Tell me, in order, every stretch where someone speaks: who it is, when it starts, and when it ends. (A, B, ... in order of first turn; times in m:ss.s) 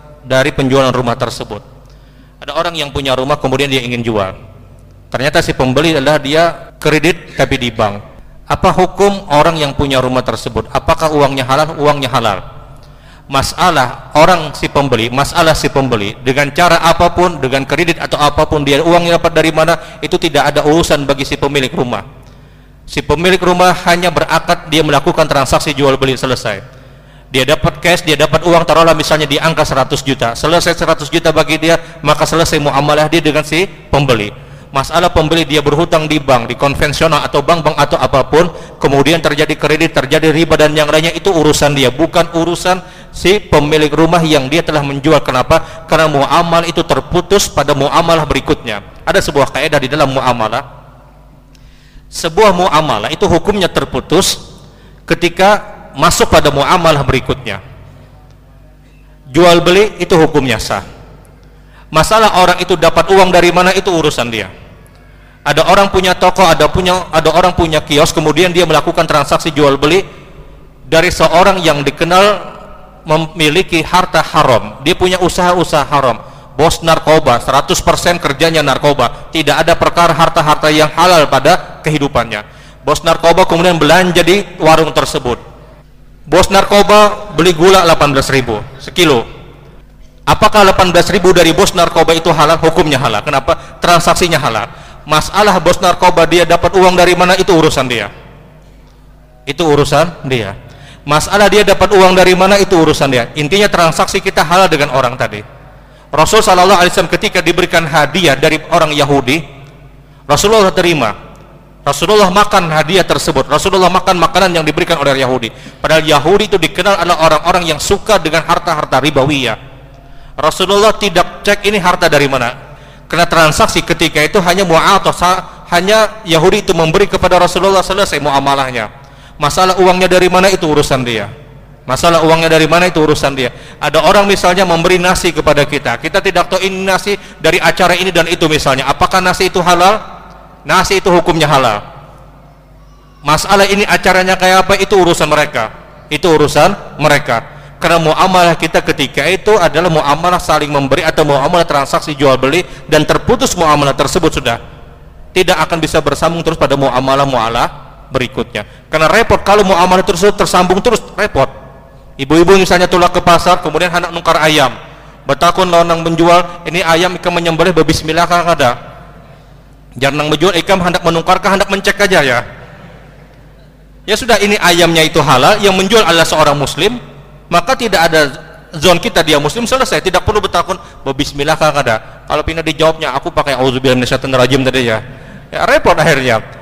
0:00.3-0:01.6 A
0:02.4-0:04.3 A
0:05.1-0:12.4 A
0:13.3-0:22.0 A
0:22.9-0:26.6 A
0:27.3-0:50.6 A
0:52.1-0:54.4 A
0:55.1-0:57.6 A
0:59.3-1:00.8 A
1:01.9-1:04.5 A
1:05.5-1:10.0 A
1:10.9-1:12.5 A
1:13.0-1:25.4 A
1:26.3-1:29.2 A
1:30.3-1:38.1 A
1:39.5-1:40.5 A
1:41.1-1:45.4 A
1:46.2-1:49.4 A
1:50.3-1:51.1 A
1:51.8-1:59.6 A
2:00.4-2:02.5 A
2:03.1-2:08.9 A
2:09.4-2:11.3 A
2:11.9-2:20.0 A
2:20.6-2:21.8 A
2:23.2-2:34.6 A
2:35.3-2:41.5 A
2:42.2-2:44.7 A
2:45.3-2:48.7 A
2:50.0-2:52.4 A
2:54.1-2:57.0 A
2:57.5-3:05.0 A
3:05.5-3:06.4 A